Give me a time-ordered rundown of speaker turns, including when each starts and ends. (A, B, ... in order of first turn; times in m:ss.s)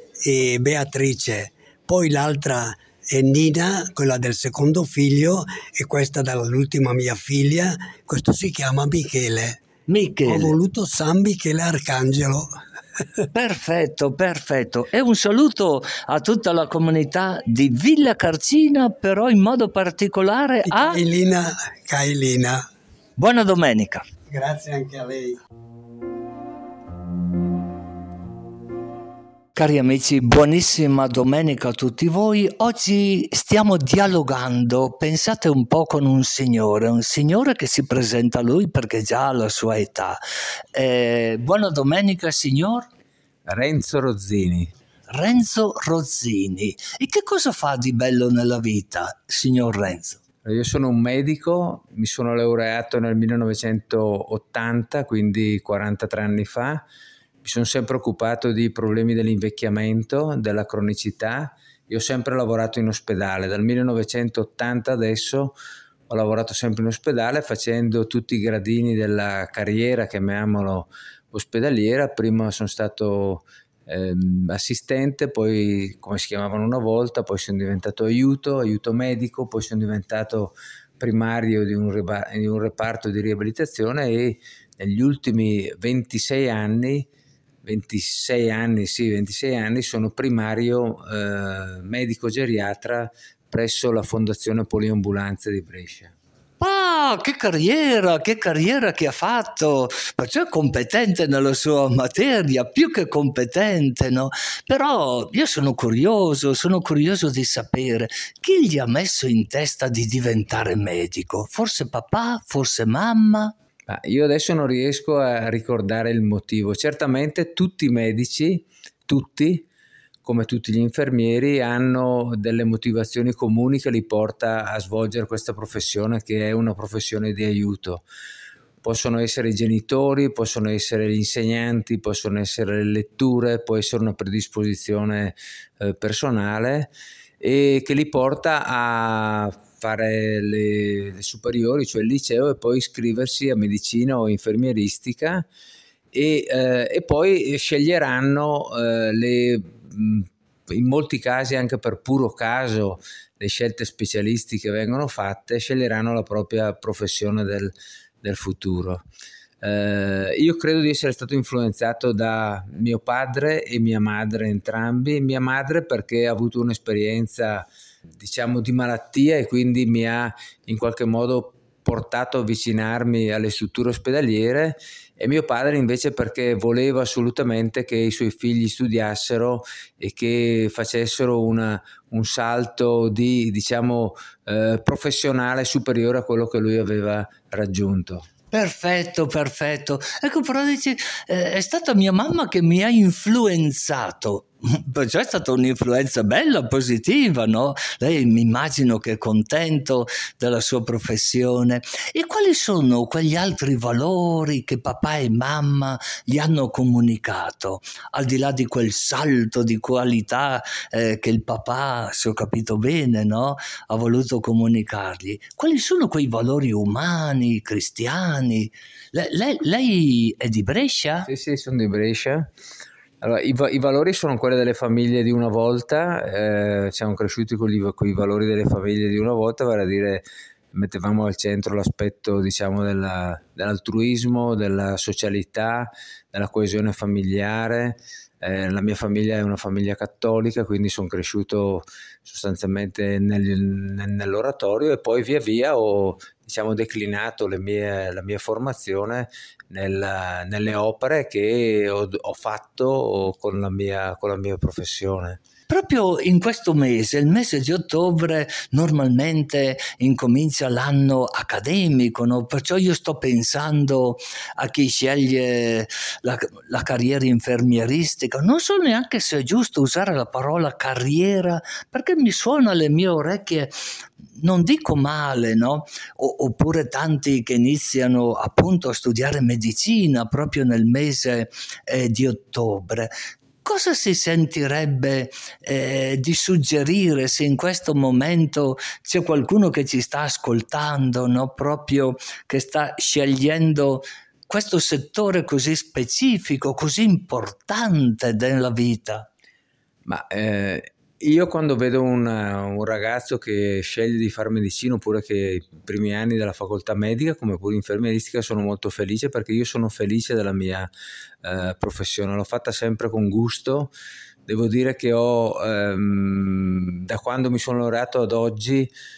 0:00.2-0:09.6 A
0:09.9-0:10.6 B
0:10.2-0:12.5 A
0:13.3-0:21.0 B
0:20.6-0:22.7 A
0:23.2-0:24.0 B
0:24.3-0:25.4 A
0:29.5-0:40.2 B
0:40.7-0:42.9 B
0:43.4-0:44.7 C
0:45.1-0:50.2 B
0:50.4-0:56.8 C
0:57.4-1:05.6 C
1:06.1-1:27.1 C
1:27.6-1:36.1 C
1:36.6-1:53.5 B
1:53.9-1:59.7 C
2:00.2-2:08.0 C
2:08.8-2:25.4 C
2:26.1-2:39.0 C
2:39.6-2:47.7 C
2:48.2-3:08.3 C
3:08.5-3:41.3 B
3:41.3-3:42.5 C
3:43.2-4:15.4 C
4:15.7-4:33.7 B
4:34.4-4:43.1 B
4:43.6-4:59.3 B
5:00.0-5:10.9 C
5:11.4-5:13.9 C
5:14.4-5:18.9 C